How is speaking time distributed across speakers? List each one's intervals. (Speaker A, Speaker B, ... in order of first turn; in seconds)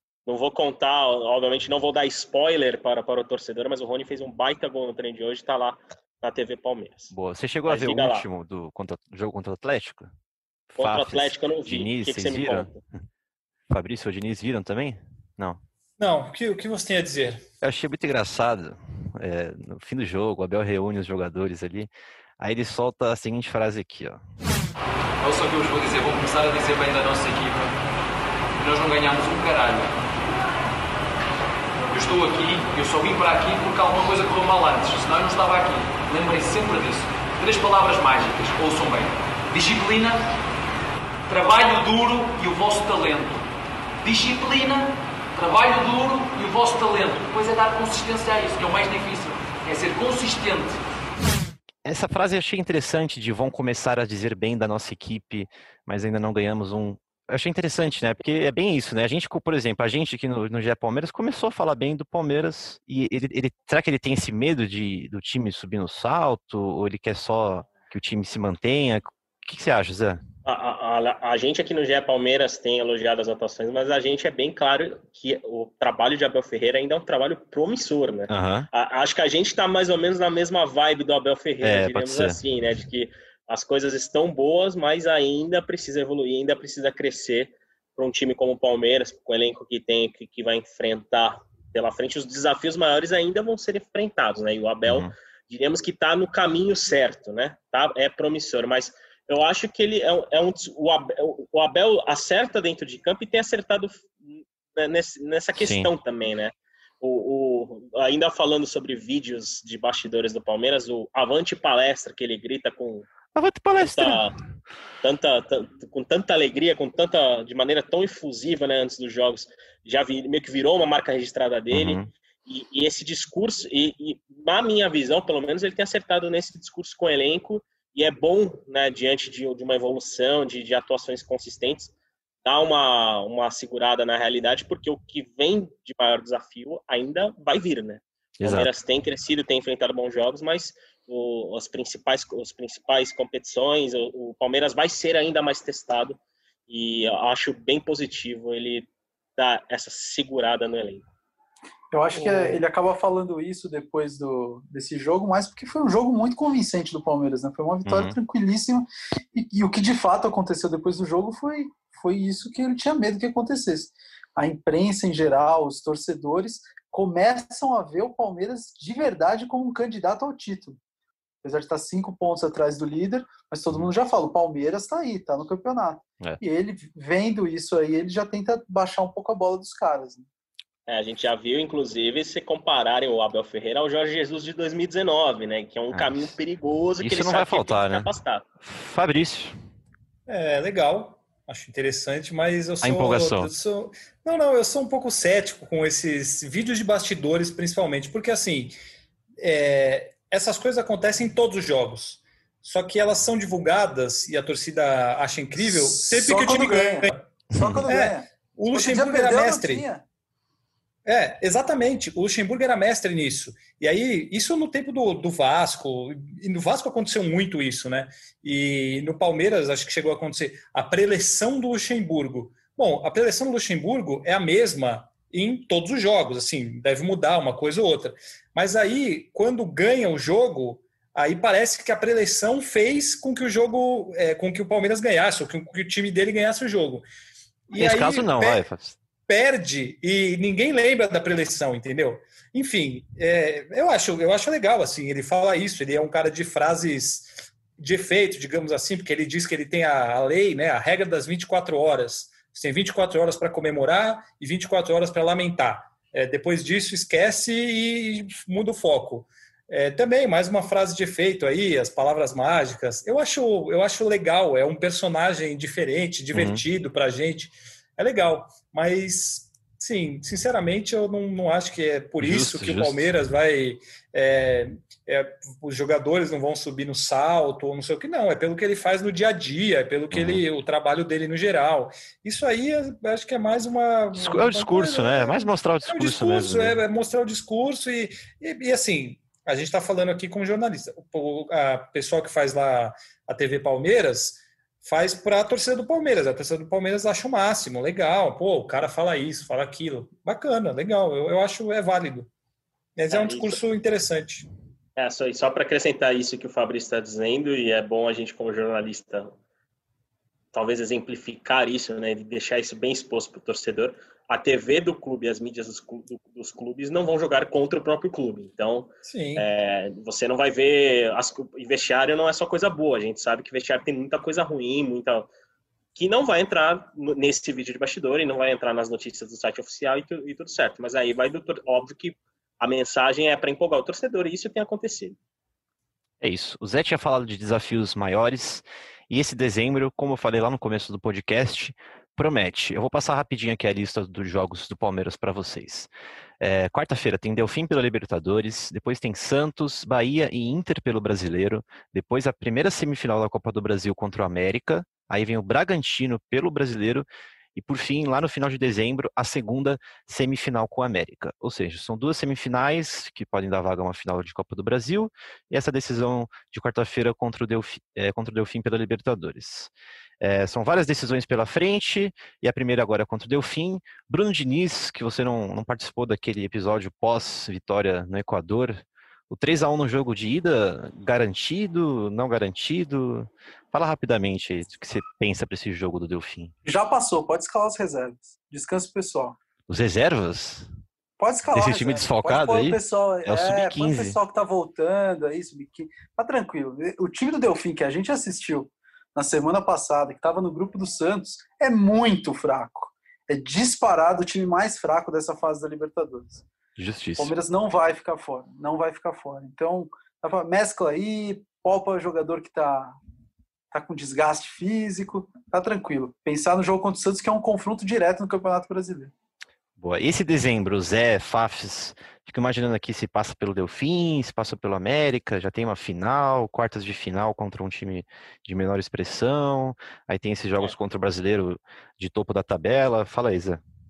Speaker A: 0.2-7.1, 7.7-8.2, 10.8-12.8, 70.4-113.1, 113.8-114.3, 115.0-131.9, 132.4-151.0, 180.9-188.4, 303.1-303.6, 305.0-309.3, 310.5-325.3, 325.9-335.2
Speaker B: 7.1-10.1, 10.7-12.7, 13.7-15.6, 17.6-24.2, 51.8-70.2, 78.3-78.7, 81.6-82.4, 94.8-95.1, 105.5-105.9, 113.3-114.2, 121.7-122.1, 138.4-138.7, 157.8-158.2, 185.9-186.3, 187.0-188.1, 188.6-189.5, 192.8-193.5, 207.5-207.9, 237.8-239.0, 266.3-266.6, 272.2-273.1, 280.1-280.4, 284.1-286.8, 336.2-345.9, 346.4-369.7, 370.2-386.5, 389.7-390.7, 391.5-394.1, 406.8-407.3, 419.8-433.6
Speaker C: 16.0-17.4, 152.2-152.6, 190.3-198.7, 199.4-207.3, 207.9-209.9, 211.1-237.0, 237.7-238.6, 239.3-302.3, 302.9-304.4, 319.0-319.4
Speaker D: 25.2-27.7, 28.6-29.9, 31.9-40.2, 41.3-43.4, 44.0-50.8
Speaker E: 151.9-170.8, 171.4-180.3, 205.6-210.0, 386.6-389.4, 391.2-406.4, 407.2-413.0, 413.7-419.1